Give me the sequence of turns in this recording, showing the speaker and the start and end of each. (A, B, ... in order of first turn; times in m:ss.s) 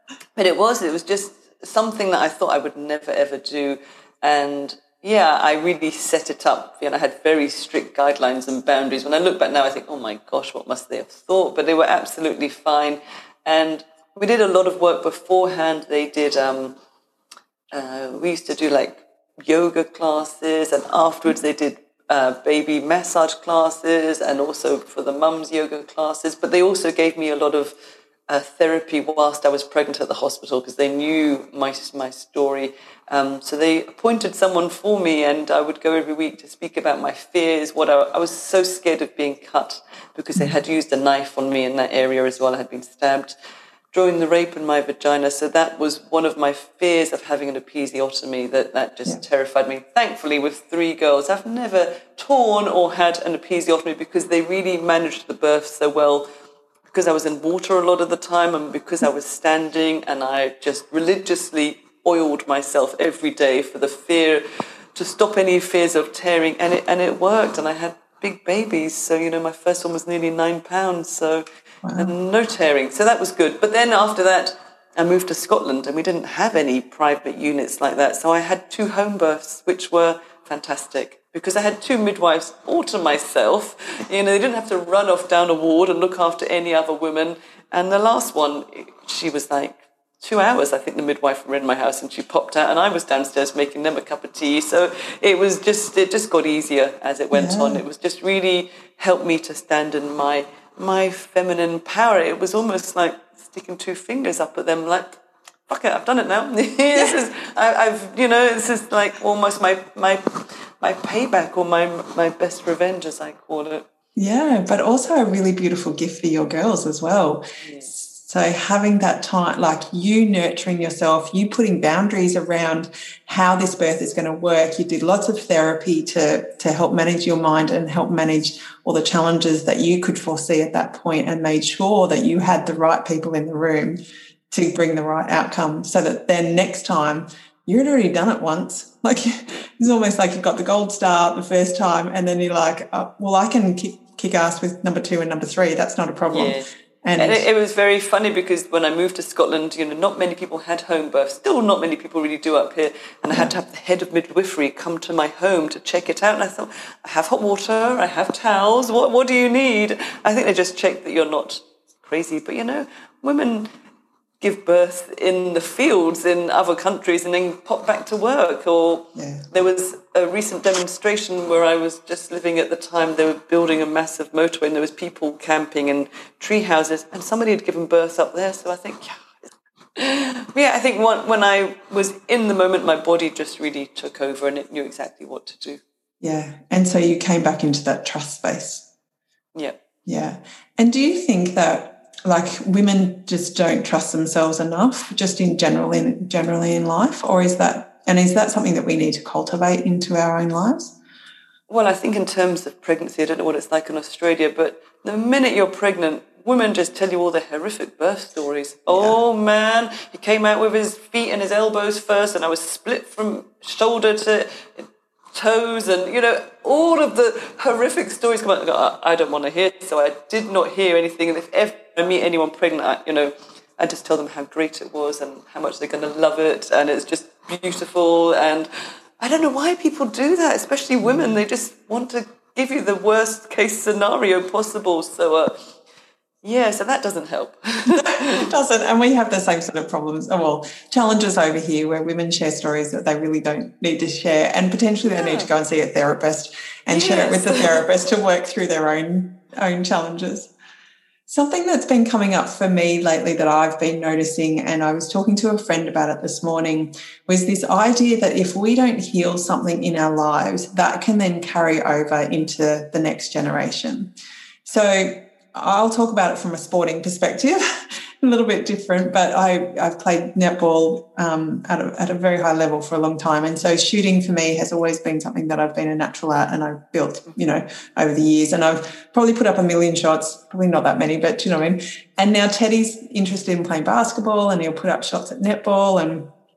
0:00.4-0:16.8 A
0:17.7-0:27.7 A
0:28.3-0:43.3 A
0:43.9-0:56.3 A
0:56.9-1:11.4 A
1:11.8-1:12.1 B
1:12.0-1:53.9 A
1:37.3-1:37.8 B
1:54.2-2:14.0 B
2:14.5-2:27.4 B
2:26.3-2:26.6 A
2:27.2-2:43.7 A
2:44.4-2:59.3 A
2:49.1-2:49.5 B
3:00.0-3:05.8 A
3:06.2-3:08.9 B
3:09.5-3:09.8 A
3:10.0-3:21.0 B
3:21.7-3:55.7 A
3:28.9-3:29.2 B
3:51.0-3:51.3 B
3:56.4-3:58.5 A
3:57.9-4:10.5 B
4:05.1-4:05.5 A
4:06.9-4:07.8 A
4:11.3-4:24.1 B
4:24.6-4:46.3 B